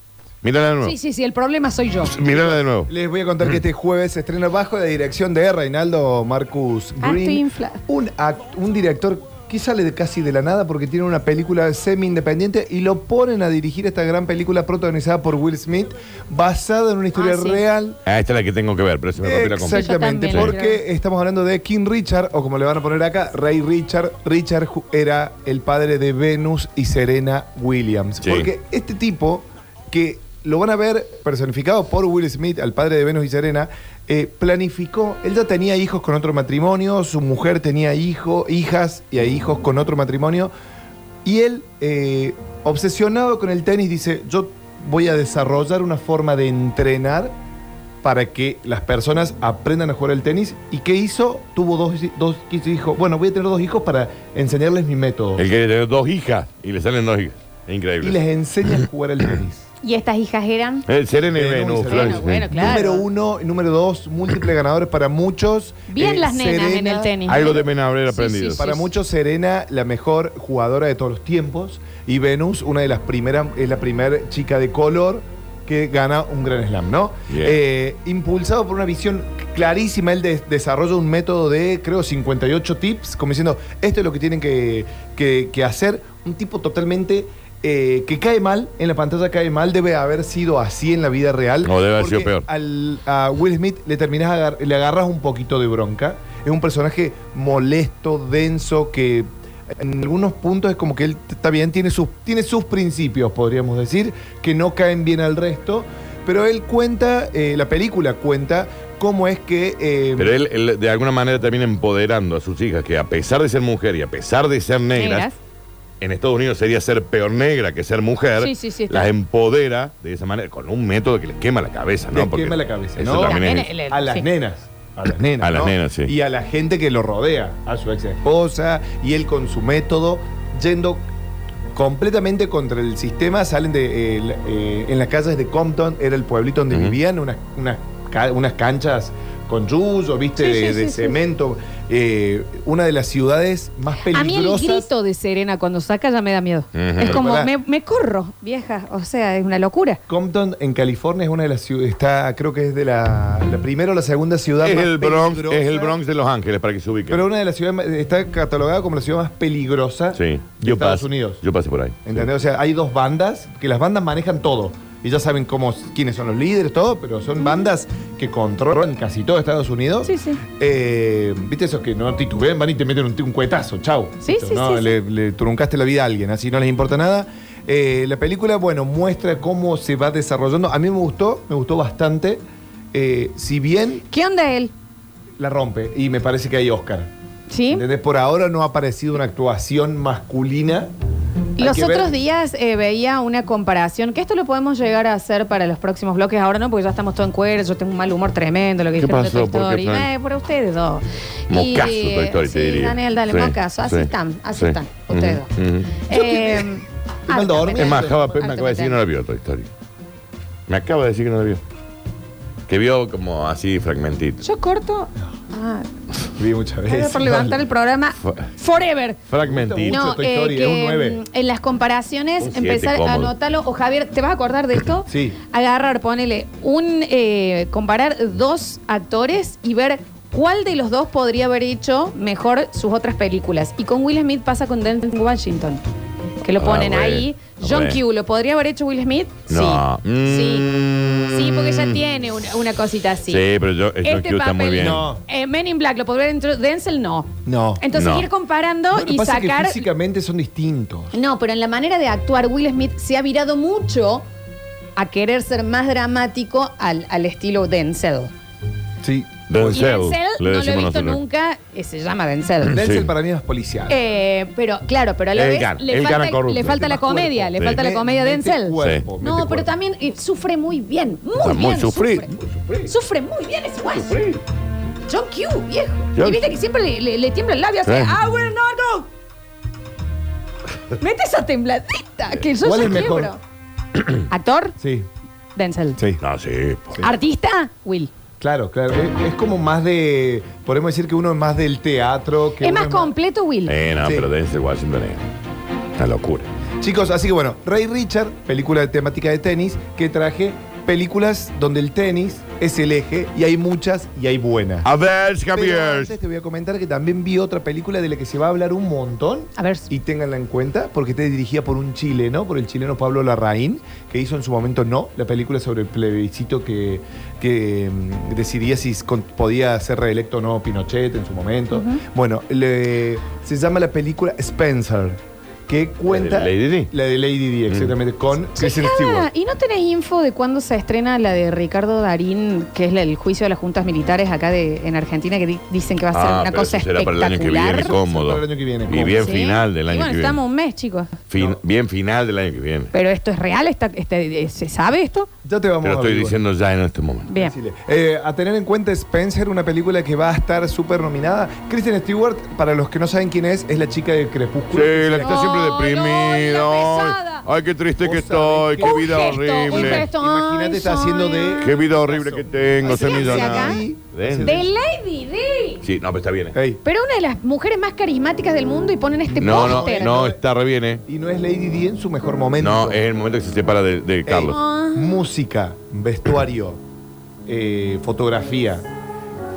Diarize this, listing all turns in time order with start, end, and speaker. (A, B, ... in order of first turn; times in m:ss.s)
0:00.4-0:00.9 A
0:00.8-0:02.1 B
0:02.0-0:02.9 A
0:02.3-0:18.0 C
0:07.0-0:07.8 B
0:17.1-0:17.6 B
0:18.0-0:20.5 A
0:19.2-0:40.5 C
0:19.6-0:20.8 B
0:28.2-0:28.5 A
0:41.2-0:47.3 C
0:48.0-0:55.4 C
0:55.4-0:58.2 A
0:58.0-0:59.7 C
0:59.8-1:00.9 B
1:00.9-1:02.5 A
1:01.3-1:07.2 C
1:01.9-1:03.0 B
1:05.9-1:08.9 B
1:07.2-1:08.6 A
1:08.6-1:50.3 C
1:17.3-1:17.6 A
1:31.6-1:32.5 A
1:50.2-1:55.3 A
1:54.9-1:55.4 B
1:56.0-2:03.7 A
1:58.4-1:59.1 B
2:02.1-2:11.0 C
2:03.0-2:04.2 B
2:05.4-2:06.1 A
2:11.7-2:24.9 C
2:16.7-2:17.0 A
2:20.4-2:21.2 B
2:24.1-2:30.0 B
2:26.7-2:27.2 A
2:27.0-2:27.5 C
2:30.1-2:36.0 C
2:34.6-2:37.2 A
2:37.1-2:41.4 C
2:40.1-2:42.2 A
2:42.0-3:02.4 C
2:50.0-2:50.4 B
2:54.2-2:54.9 B
3:02.9-3:04.0 C
3:04.1-3:04.7 B
3:05.4-3:07.1 C
3:07.5-3:07.8 B
3:07.7-3:10.9 C
3:11.6-3:12.1 C
3:11.6-3:29.0 B
3:19.0-3:20.1 A
3:21.5-3:26.0 A
3:26.1-3:28.3 C
3:27.7-3:29.7 A
3:30.7-3:31.6 A
3:32.7-3:34.4 A
3:34.4-3:35.9 B
3:36.4-3:37.6 C
3:36.9-3:39.2 B
3:38.2-3:38.5 A
3:39.3-3:40.0 A
3:39.4-3:41.2 C
3:39.9-3:55.8 B
3:42.4-3:43.3 A
3:45.1-3:45.4 C
3:56.4-4:00.7 B
3:56.6-3:58.0 A
3:59.5-4:02.0 A
4:01.3-4:03.4 B
4:03.3-4:05.0 A
4:04.0-4:09.8 B
4:04.8-4:05.2 C
4:07.4-4:07.8 C
4:07.9-4:08.3 A
4:08.9-4:11.1 C
4:11.1-4:14.2 B
4:15.0-4:18.3 B
4:19.0-4:19.8 C
4:19.5-4:21.2 A
4:19.7-4:22.8 B
4:22.7-4:23.1 A
4:22.7-4:24.0 C
4:23.9-4:32.3 B
4:25.3-4:26.8 A
4:26.6-4:29.7 C
4:31.4-4:32.9 A
4:32.9-4:34.2 B
4:33.9-4:34.4 A
4:35.1-4:39.1 B
4:36.1-4:36.5 A
4:37.8-4:38.2 A
4:41.0-4:43.4 B
4:42.6-4:43.3 C
4:44.3-4:44.8 B
4:44.8-4:45.1 C
4:45.6-4:46.0 B
4:46.2-4:47.0 A
4:47.0-4:48.1 B
4:48.4-4:53.1 C
4:52.6-4:53.7 B
4:53.6-4:55.3 A
4:54.0-4:54.3 C
4:56.0-4:56.5 A
4:56.8-5:04.9 C
5:04.8-5:06.1 A
5:05.5-5:29.3 C
5:09.6-5:09.9 B
5:21.7-5:22.0 B
5:26.1-5:26.9 A
5:27.7-5:27.9 A
5:28.6-5:37.9 B
5:36.1-5:40.4 A
5:37.7-5:39.3 C
5:39.2-5:41.2 B
5:41.3-5:42.9 A
5:42.9-5:45.3 B
5:45.4-5:46.4 C
5:45.8-5:47.3 A
5:47.3-5:47.5 B
5:47.4-5:55.5 C
5:54.7-6:00.1 A
5:55.2-5:57.4 B
5:58.0-6:04.7 C
5:58.8-6:01.7 B
6:01.6-6:04.6 A
6:02.8-6:03.8 B
6:04.4-6:05.8 B
6:05.8-6:06.6 A
6:06.5-6:06.8 C
6:06.8-6:10.2 B
6:09.3-6:10.4 C
6:09.4-6:11.0 A
6:11.0-6:13.0 C
6:12.6-6:14.6 A
6:14.2-6:16.8 C
6:14.4-6:15.1 B
6:17.4-6:18.9 C